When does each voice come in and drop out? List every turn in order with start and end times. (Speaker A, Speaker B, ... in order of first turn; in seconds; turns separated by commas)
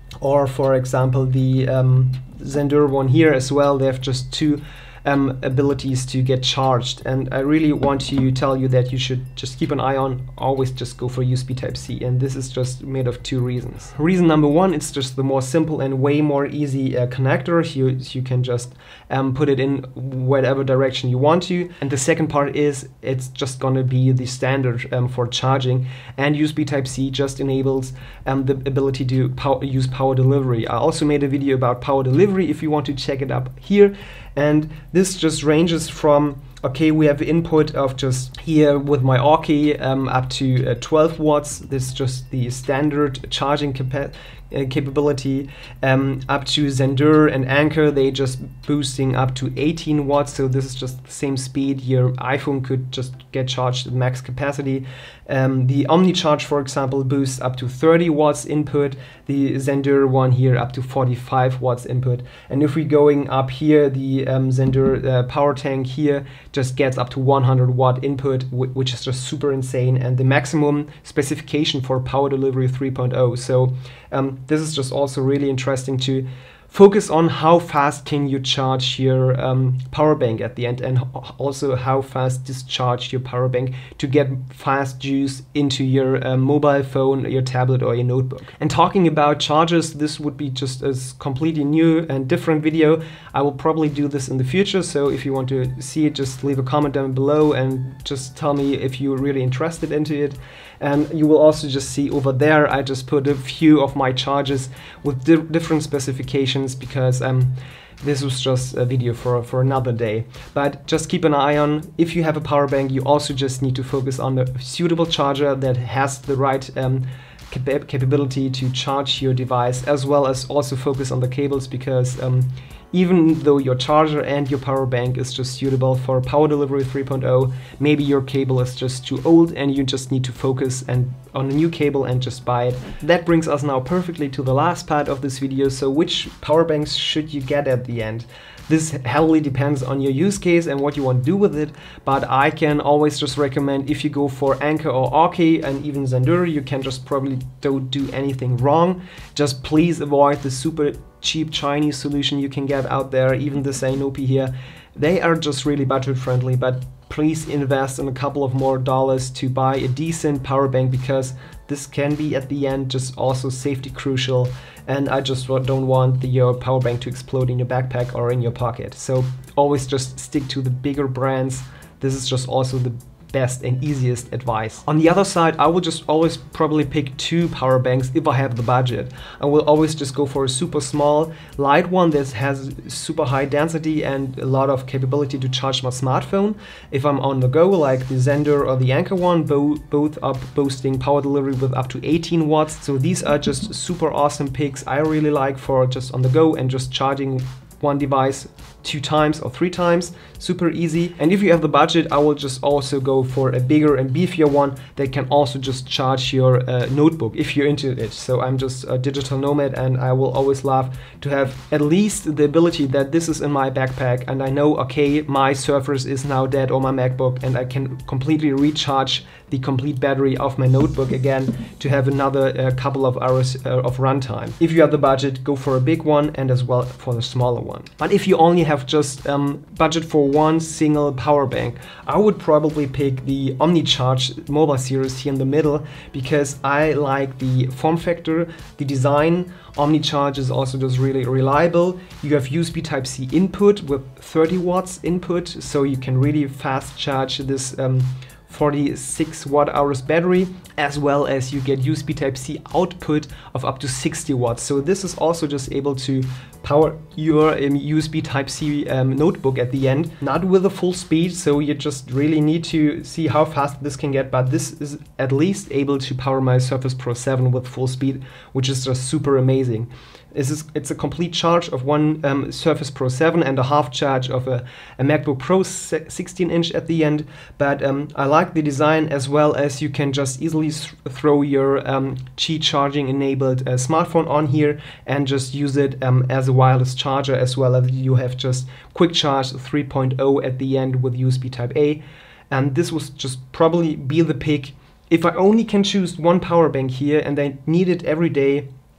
Speaker A: 0.2-298.7